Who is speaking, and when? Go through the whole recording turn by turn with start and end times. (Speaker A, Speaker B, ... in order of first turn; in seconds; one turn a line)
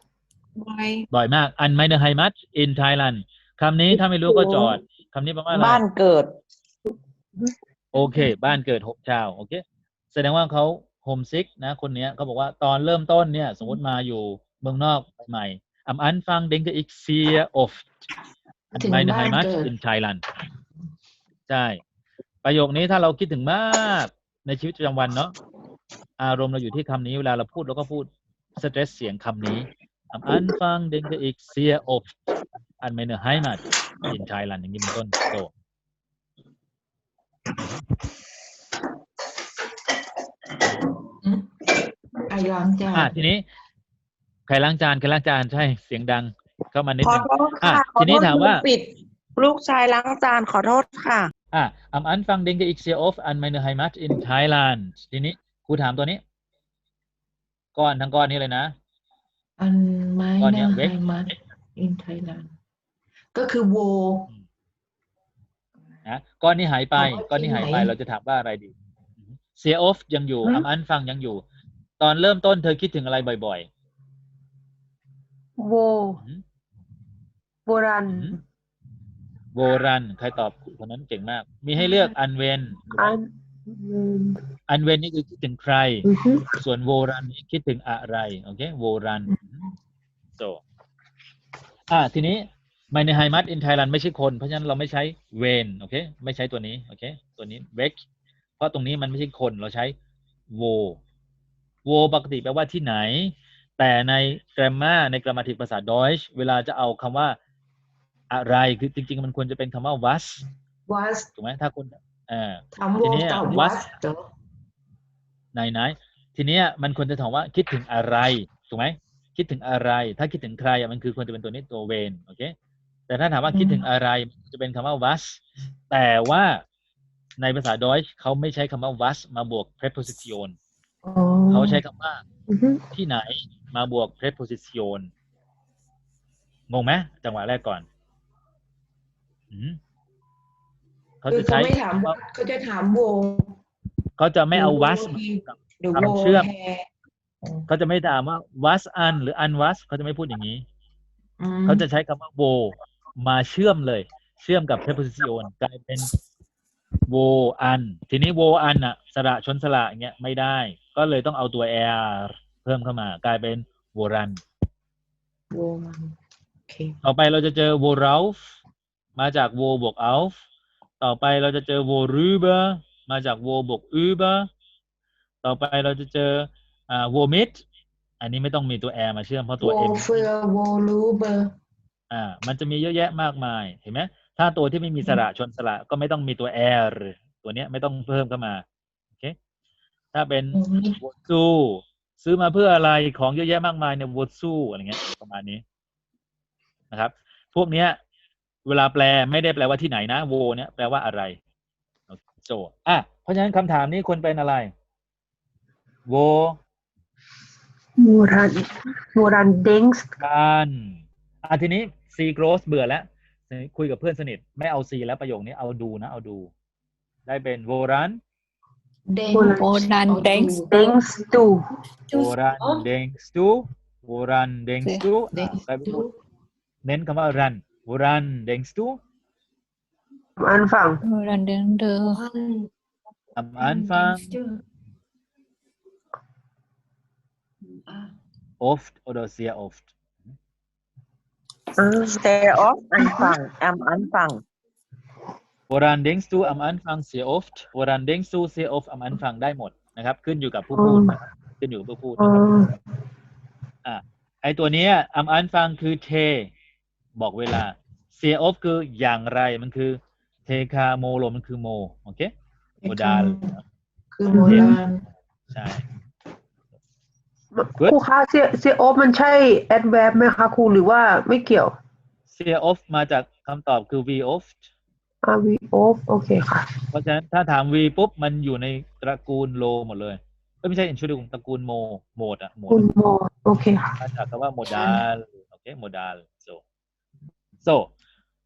Speaker A: 0.6-1.1
Speaker B: 1.1-5.8
Speaker C: 4.3-4.8
Speaker D: 5.5-6.3
Speaker C: 6.9-7.5
Speaker B: 7.9-17.9
Speaker B: 18.7-20.2
Speaker A: 18.8-19.7
Speaker B: 21.5-21.8
Speaker B: 22.4-25.3
Speaker B: 26.2-32.1
Speaker B: 32.8-35.5
Speaker A: 42.3-43.1
Speaker B: 42.9-43.5
Speaker B: 44.5-48.6
Speaker D: 47.0-48.9
Speaker D: 49.4-51.3
Speaker B: 51.5-56.2
Speaker B: 57.8-58.7
Speaker A: 59.6-62.5
Speaker B: 60.4-61.0
Speaker A: 63.3-64.3
Speaker B: 66.0-71.4
Speaker A: 67.0-67.9
Speaker B: 72.0-73.7
Speaker C: 75.6-76.2
Speaker B: 76.2-76.4
Speaker C: 77.7-78.4
Speaker B: 78.1-78.4
Speaker B: 79.5-83.2
Speaker C: 82.9-84.4
Speaker B: 84.7-86.1
Speaker C: 86.1-86.5
Speaker B: 86.6-89.4
Speaker B: 91.9-98.0
Speaker B: 98.6-100.0
Speaker B: 100.5-101.0
Speaker B: 101.8-107.4
Speaker B: 108.3-110.4
Speaker A: 110.9-111.3
Speaker B: 111.4-113.8
Speaker A: 112.7-114.2
Speaker B: 115.5-122.5
Speaker B: 123.1-126.6
Speaker C: 123.5-123.8
Speaker B: 127.4-130.6
Speaker C: 131.1-131.8
Speaker B: 131.5-132.2
Speaker C: 132.5-132.8
Speaker B: 132.9-135.1
Speaker B: 136.7-137.9
Speaker B: 139.5-139.8
Speaker B: 141.2-142.2
Speaker A: 141.3-143.5
Speaker B: 144.2-146.5
Speaker A: 144.5-146.9
Speaker A: 147.4-147.7
Speaker B: 147.7-150.6
Speaker A: 151.4-151.9
Speaker B: 151.7-156.1
Speaker B: 157.1-164.4
Speaker C: 165.5-166.0
Speaker B: 167.0-168.4
Speaker B: 169.2-170.4
Speaker B: 171.0-174.5
Speaker B: 175.4-177.6
Speaker B: 178.2-180.3
Speaker A: 179.6-181.5
Speaker B: 182.1-188.6
Speaker B: 190.1-195.6
Speaker A: 190.5-191.0
Speaker B: 196.9-198.0
Speaker B: 198.7-201.4
Speaker B: 202.1-204.7
Speaker B: 206.1-206.6
Speaker C: 208.0-210.1
Speaker B: 210.2-216.5
Speaker B: 217.3-218.2
Speaker A: 219.1-220.7
Speaker C: 219.3-219.7
Speaker E: 219.6-220.7
Speaker C: 220.7-221.6
Speaker B: 222.1-226.1
Speaker A: 222.6-222.8
Speaker E: 224.8-225.1
Speaker A: 225.3-226.1
Speaker B: 226.8-229.0
Speaker C: 230.4-231.0
Speaker E: 231.0-232.2
Speaker A: 232.2-232.7
Speaker B: 233.4-234.3
Speaker E: 233.6-234.3
Speaker B: 238.6-240.3
Speaker C: 241.8-242.3
Speaker D: 242.1-244.4
Speaker C: 243.0-243.4
Speaker B: 245.7-252.5
Speaker C: 250.8-251.2
Speaker C: 252.2-252.7
Speaker B: 253.8-256.5
Speaker B: 257.2-262.3
Speaker A: 262.8-263.5
Speaker B: 262.9-263.6
Speaker A: 264.1-265.0
Speaker C: 264.3-264.8
Speaker B: 264.4-264.8
Speaker B: 265.5-265.8
Speaker C: 267.6-271.7
Speaker B: 272.3-274.6
Speaker C: 275.2-276.7
Speaker B: 276.9-282.8
Speaker C: 282.7-284.0
Speaker B: 284.0-286.6
Speaker B: 287.6-287.9